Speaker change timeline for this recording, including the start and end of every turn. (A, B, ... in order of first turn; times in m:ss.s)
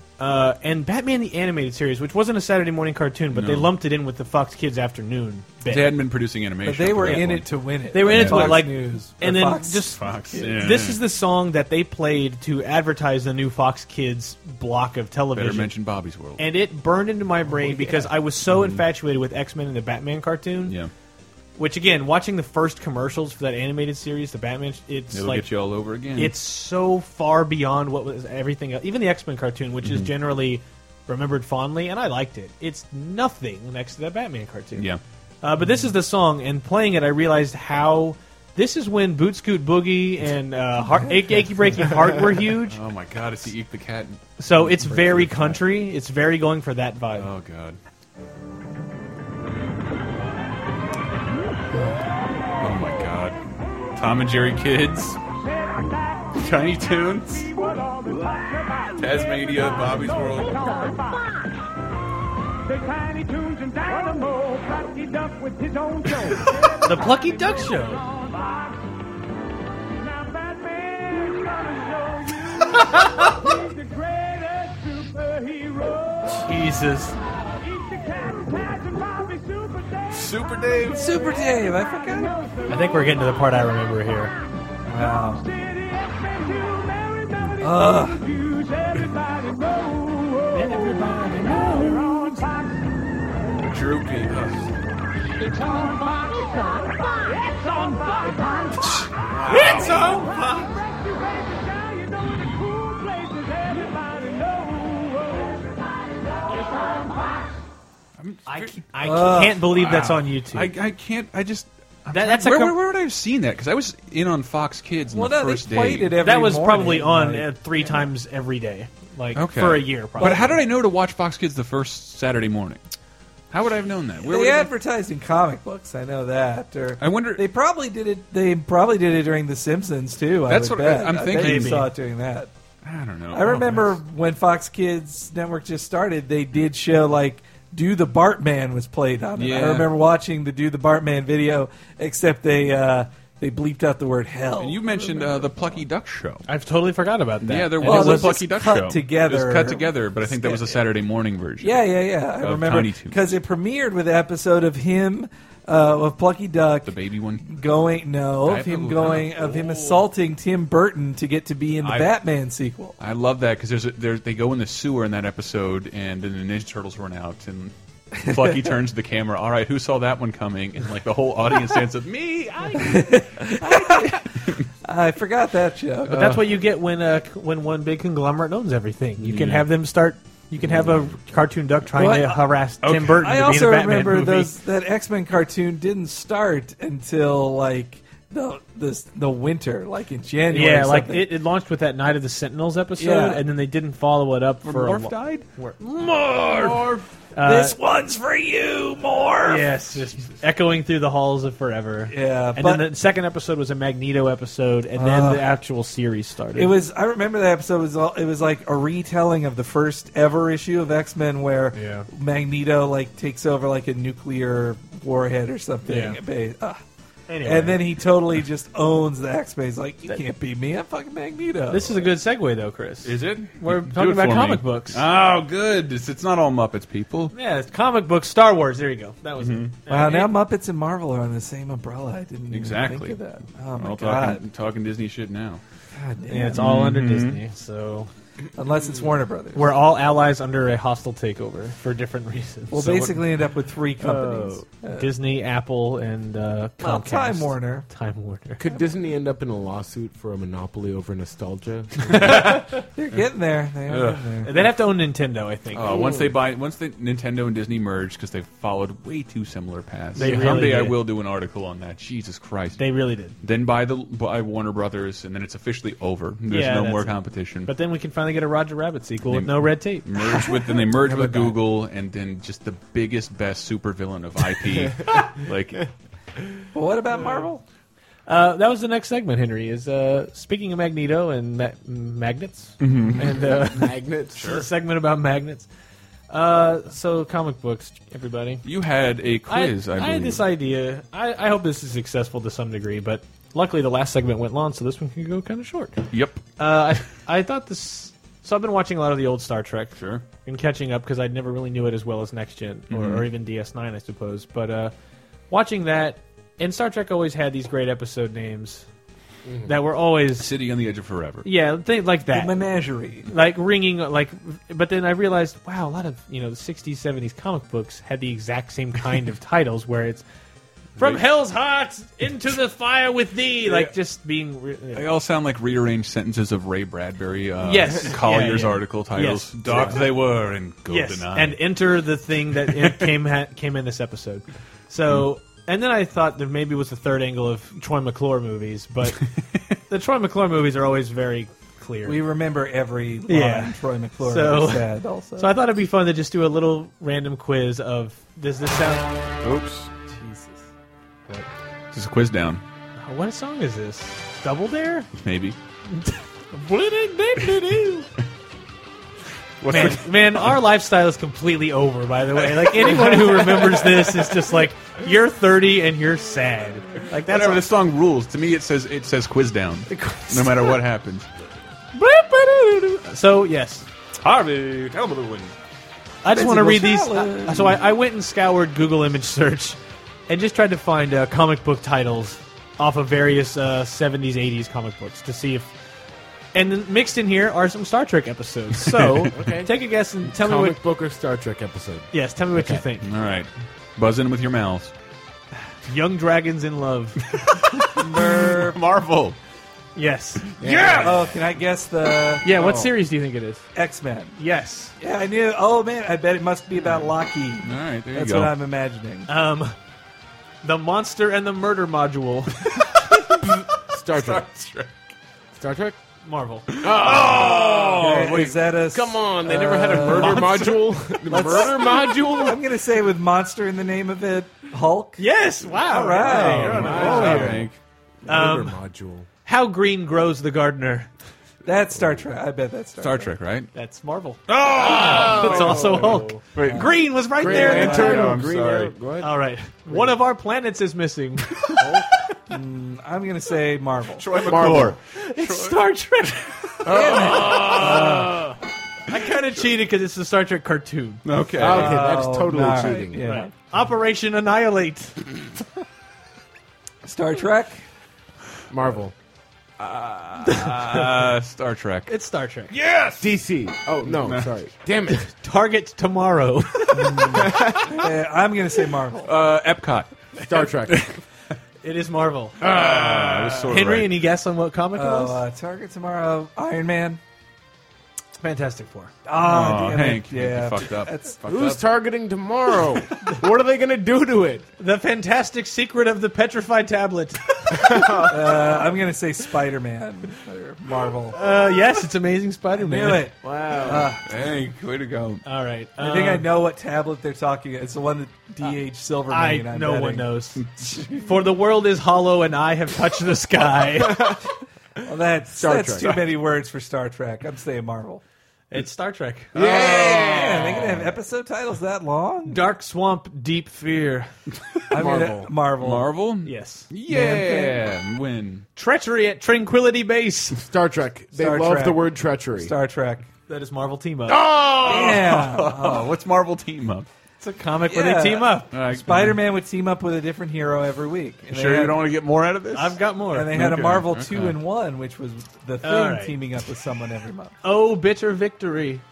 0:00.2-0:06.0 A
0:03.3-0:03.7 B
0:05.7-0:08.7 B
0:06.6-0:10.7 C
0:07.0-0:07.3 A
0:07.9-0:15.7 A
0:10.0-0:11.0 B
0:15.3-0:16.4 B
0:16.4-0:20.8 A
0:18.5-0:18.8 B
0:20.7-0:20.9 B
0:21.6-0:25.5 A
0:25.1-0:26.4 B
0:26.1-0:34.9 A
0:29.8-0:30.1 B
0:34.8-0:35.0 B
0:35.4-0:42.8 A
0:42.7-0:45.6 B
0:44.4-0:47.3 A
0:47.2-0:47.8 B
0:52.6-0:53.4 B
0:54.0-0:55.2 B
0:56.3-0:57.8 B
0:59.0-1:00.9 B
1:03.7-1:05.6 D
1:06.1-1:06.5 B
1:06.8-1:08.1 A
1:16.4-1:17.2 A
1:20.1-1:21.1 B
1:21.0-1:22.4 C
1:22.7-1:24.4 A
1:24.9-1:25.5 C
1:27.6-1:28.3 C
1:30.6-1:31.5 A
1:33.6-1:34.7 B
1:39.0-1:40.5 B
1:39.7-1:40.2 A
1:48.2-1:48.8 B
1:48.5-1:50.7 A
1:49.0-1:49.7 C
1:49.7-1:56.2 B
1:52.1-1:52.8 A
1:55.1-1:58.0 C
1:56.2-2:00.6 A
1:59.4-2:02.8 B
2:00.2-2:00.6 C
2:03.5-2:04.7 B
2:04.2-2:12.5 C
2:07.0-2:07.4 B
2:10.5-2:11.9 B
2:11.3-2:11.9 A
2:12.8-2:14.0 B
2:13.3-2:25.8 C
2:19.4-2:19.9 B
2:24.6-2:26.5 B
2:26.5-2:28.4 A
2:27.4-2:33.4 B
2:27.8-2:30.8 C
2:31.6-2:36.9 C
2:36.8-2:37.6 B
2:37.5-2:43.0 C
2:38.4-2:40.1 B
2:41.8-2:42.1 B
2:43.0-2:54.6 B
2:52.8-2:56.4 C
2:56.1-3:04.5 A
2:56.1-2:56.4 B
2:59.2-2:59.7 B
3:02.0-3:02.5 C
3:02.8-3:03.2 B
3:03.1-3:11.3 C
3:10.5-3:16.6 A
3:13.0-3:13.5 C
3:14.6-3:15.5 B
3:15.8-3:19.7 C
3:16.7-3:17.0 B
3:17.4-3:17.8 A
3:19.4-3:26.7 A
3:22.1-3:22.9 C
3:25.0-3:25.5 C
3:26.6-3:36.8 C
3:31.7-3:32.1 A
3:35.8-3:36.2 A
3:37.3-3:37.8 A
3:37.4-3:42.1 C
3:41.7-3:45.0 A
3:43.0-3:47.3 B
3:47.3-3:50.3 A
3:49.4-3:49.8 B
3:49.9-3:54.4 C
3:52.5-3:53.2 B
3:53.8-3:55.6 B
3:55.9-3:56.6 C
3:56.3-3:58.1 A
3:56.6-3:57.4 B
3:58.6-3:59.8 C
3:59.5-4:03.3 A
4:02.7-4:05.1 C
4:04.0-4:08.6 A
4:06.8-4:07.9 C
4:08.6-4:12.7 E
4:12.1-4:12.6 B
4:13.0-4:14.5 C
4:13.9-4:14.5 B
4:14.4-4:16.1 A
4:15.7-4:22.9 B
4:15.8-4:16.3 E
4:20.2-4:21.0 A
4:22.8-4:23.4 A
4:23.4-4:27.7 B
4:26.5-4:30.1 A
4:29.3-4:35.9 B
4:34.9-4:35.3 E
4:36.7-4:37.6 C
4:38.3-4:45.7 A
4:42.8-4:43.4 B
4:43.2-4:44.5 E
4:44.4-4:44.7 B
4:46.3-4:48.7 A
4:48.6-4:50.4 B
4:49.5-4:56.0 A
4:56.1-4:56.4 B
4:56.6-5:04.9 A
5:00.0-5:00.2 B
5:02.9-5:03.3 B
5:05.5-5:08.9 A
5:09.4-5:09.7 E
5:09.7-5:10.5 A
5:10.4-5:11.5 B
5:11.4-5:12.6 A
5:12.3-5:13.3 C
5:13.3-5:20.2 A
5:21.0-5:21.2 B
5:21.0-5:25.1 A
5:23.6-5:23.9 B
5:24.9-5:31.7 B
5:27.6-5:30.1 A
5:30.9-5:39.2 A
5:32.7-5:33.0 B
5:39.9-5:42.2 A
5:42.0-5:45.6 C
5:43.3-5:49.2 A
5:49.4-5:49.9 B
5:50.1-5:50.6 C
5:51.9-5:52.6 B
5:53.0-5:55.1 A
5:55.2-5:55.6 B
5:55.9-5:58.1 A
5:59.6-6:00.6 B
5:59.7-6:07.7 A
6:02.5-6:04.1 B
6:07.1-6:11.3 B
6:09.9-6:10.8 A
6:12.7-6:13.0 B
6:13.0-6:13.9 A
6:14.2-6:15.5 B
6:16.2-6:25.7 A
6:16.3-6:17.8 C
6:26.5-6:30.8 A
6:28.9-6:29.2 B
6:29.3-6:29.7 E
6:30.2-6:32.8 E
6:32.1-6:33.1 A
6:33.0-6:34.9 B
6:35.9-6:37.2 A
6:37.3-6:39.4 B
6:38.0-6:38.8 C
6:40.0-6:41.0 A
6:40.6-6:41.2 B
6:40.6-6:41.1 E
6:41.0-6:42.8 C
6:42.4-6:43.6 A
6:43.7-6:44.4 C
6:44.4-6:45.0 A
6:45.0-6:49.3 C
6:47.6-6:48.6 B
6:49.3-6:49.8 A
6:50.6-6:52.7 A
6:52.8-6:55.0 B
6:53.8-6:54.5 E
6:55.5-6:56.0 E
6:56.2-6:56.7 A
6:56.7-6:58.6 B
6:56.8-7:02.6 E
6:58.0-7:00.7 C
6:59.9-7:02.0 B
7:01.3-7:07.6 C
7:05.2-7:07.5 A
7:06.3-7:07.7 E
7:06.3-7:07.8 B
7:08.2-7:09.3 E
7:08.3-7:08.8 A
7:09.4-7:11.1 A
7:11.6-7:13.3 C
7:13.0-7:13.7 B
7:13.7-7:18.3 A
7:14.5-7:18.9 B
7:14.6-7:16.5 E
7:17.3-7:19.4 E
7:17.7-7:18.2 C
7:19.2-7:21.9 A
7:21.8-7:22.0 E
7:22.5-7:24.3 C
7:24.2-7:25.9 B
7:24.4-7:25.0 E
7:25.2-7:31.2 A
7:26.8-7:28.5 B
7:26.9-7:28.3 C
7:31.2-7:32.1 B
7:31.6-7:33.3 E
7:31.7-7:33.5 C
7:33.2-7:35.2 A
7:37.0-7:37.8 C
7:38.7-7:39.1 E
7:39.8-7:42.1 B
7:40.4-7:41.3 A
7:42.1-7:42.7 A
7:42.7-7:43.3 B
7:43.2-7:45.3 E
7:44.0-7:44.5 B
7:45.4-7:47.4 A
7:47.1-7:48.1 E
7:47.1-7:49.4 C
7:49.2-7:50.1 B
7:50.4-7:51.2 E
7:51.8-7:52.8 A
7:52.6-7:53.7 E
7:52.6-7:54.2 B
7:53.6-7:55.4 A
7:54.9-7:57.2 C
7:58.4-7:59.1 A
7:59.3-8:01.4 C
7:59.4-8:01.8 B
8:01.4-8:04.7 E
8:04.8-8:08.1 A
8:07.7-8:08.8 E
8:08.3-8:11.4 C
8:11.3-8:13.3 A
8:12.8-8:14.2 C
8:13.4-8:14.2 E
8:14.2-8:15.4 B
8:15.4-8:16.5 A
8:16.0-8:21.2 C
8:19.3-8:24.3 A
8:23.9-8:24.5 E
8:25.0-8:28.2 C
8:25.5-8:26.3 E
8:28.7-8:29.5 A
8:29.5-8:31.0 E
8:29.6-8:30.9 B
8:29.6-8:32.7 C
8:32.5-8:34.3 A
8:34.9-8:36.1 C
8:34.9-8:35.5 E
8:35.8-8:38.7 B
8:36.4-8:36.9 A
8:37.1-8:37.8 C
8:38.8-8:40.6 A
8:40.6-8:42.7 E
8:41.3-8:43.3 C
8:43.5-8:44.5 A
8:44.4-8:45.2 E
8:44.4-8:47.1 B
8:44.8-8:46.1 C
8:47.4-8:48.7 A
8:47.9-8:52.0 C
8:48.7-8:49.4 B
8:51.5-8:54.6 B
8:52.7-8:53.5 A
8:53.3-8:57.6 C
8:55.8-8:56.4 A
8:57.6-8:59.0 A